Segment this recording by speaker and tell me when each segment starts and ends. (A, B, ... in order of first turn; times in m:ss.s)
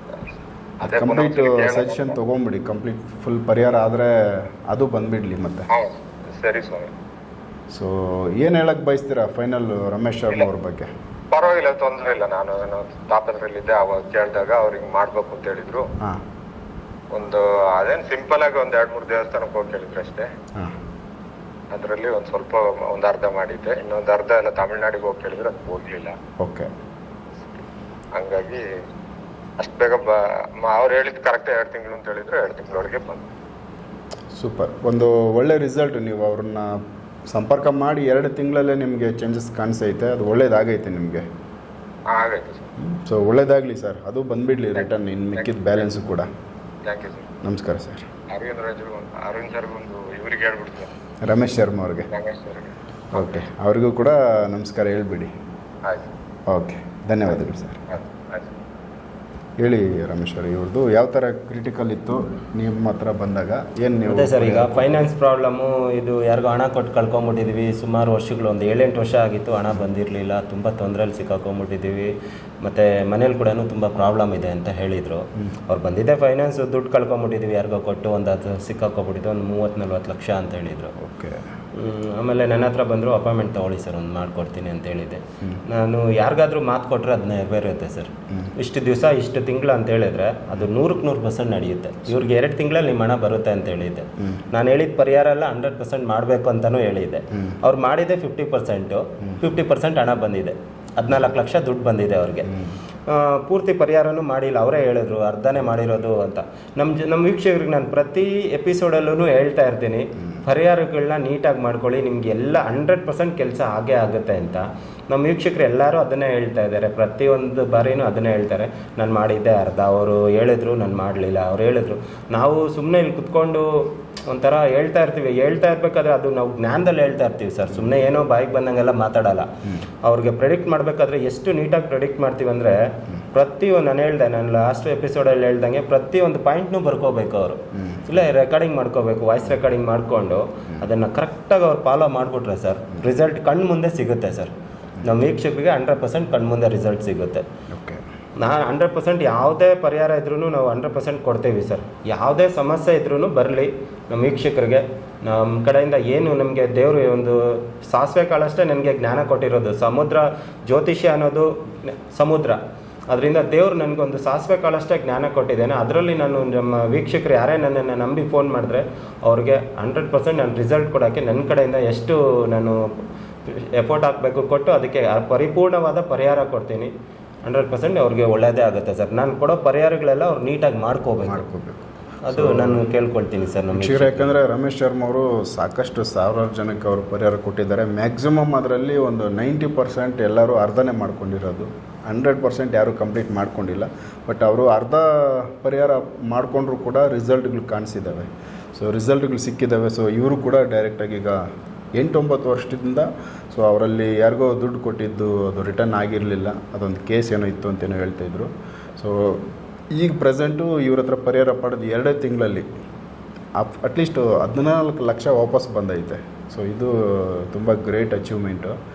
0:00.8-0:05.7 A
0:00.8-0:02.2 B
0:05.7-0:06.9 B
0:07.7-0:10.9 A
0:11.3-0:15.8 B
0:17.1-0:20.3 B
0:21.7-0:26.1 B
0:26.4-0:26.7 A
0:28.2-0:28.6 B
0:29.6-0:33.3 B
0:34.3-0:41.2 A
0:42.1-0:42.7 B
0:42.8-0:46.3 A
0:44.8-0:45.9 B
0:46.9-0:47.3 B
0:47.4-0:48.1 A
0:48.3-0:50.9 B
0:51.2-0:52.1 A
0:52.1-0:53.3 B
0:53.1-0:55.3 A
0:56.5-0:57.9 A
0:57.9-0:58.6 B
0:59.6-1:04.9 A
1:04.0-1:12.1 C
1:12.6-1:20.9 C
1:21.0-1:21.4 A
1:21.7-1:42.5 C
1:42.5-1:42.8 A
1:43.1-2:09.5 C
2:10.0-2:12.8 C
2:13.3-2:24.5 C
2:17.7-2:18.2 A
2:25.0-2:27.4 C
2:27.7-2:28.0 A
2:28.4-2:52.8 C
2:53.4-2:56.9 C
2:57.4-3:01.4 C
3:01.2-3:02.8 A
3:02.3-3:04.3 C
3:03.7-3:21.4 A
3:22.0-3:32.6 A
3:33.6-3:38.8 A